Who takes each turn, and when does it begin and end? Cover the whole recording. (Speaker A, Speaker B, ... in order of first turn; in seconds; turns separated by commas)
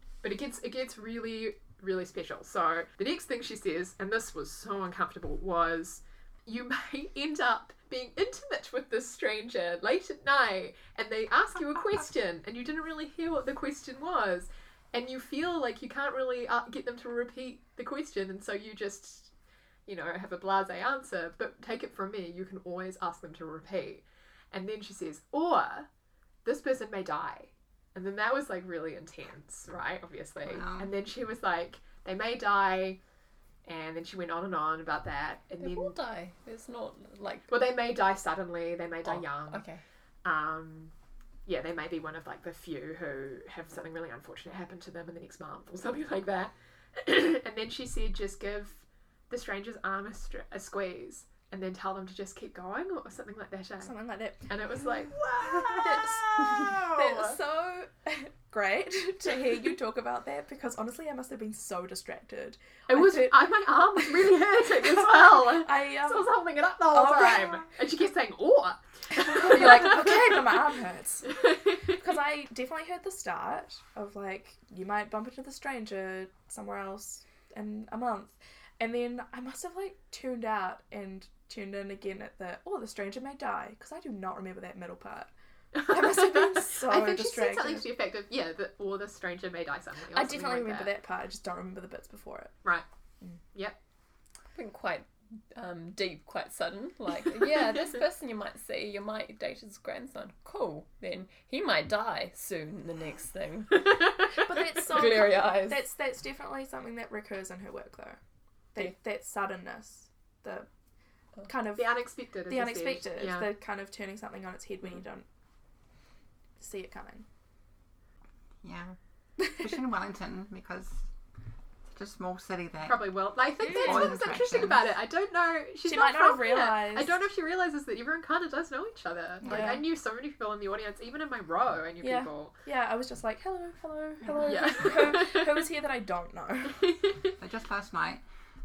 Speaker A: 0.2-19.3, Speaker A: 19.9-25.9, Speaker A: 26.4-33.0, Speaker B: 30.4-30.9, Speaker A: 33.6-36.0, Speaker C: 35.6-37.5, Speaker A: 37.5-39.6, Speaker C: 39.0-39.8, Speaker A: 40.2-40.9, Speaker A: 41.5-53.9, Speaker D: 53.8-66.3, Speaker A: 54.5-57.4, Speaker A: 62.9-70.6, Speaker D: 66.9-67.7, Speaker D: 69.2-87.9, Speaker A: 71.4-71.9, Speaker A: 85.8-90.9, Speaker D: 90.1-92.5, Speaker C: 94.5-105.8, Speaker D: 104.3-108.2, Speaker D: 108.8-110.7, Speaker D: 111.5-115.3, Speaker A: 111.8-113.5, Speaker D: 116.6-117.2, Speaker B: 118.6-121.1, Speaker B: 121.9-124.9, Speaker A: 122.9-132.6, Speaker D: 123.7-124.1, Speaker D: 125.8-127.1, Speaker B: 129.4-129.8, Speaker D: 129.5-129.8, Speaker D: 132.0-136.9, Speaker B: 134.2-134.7, Speaker A: 134.4-135.5, Speaker B: 137.4-138.2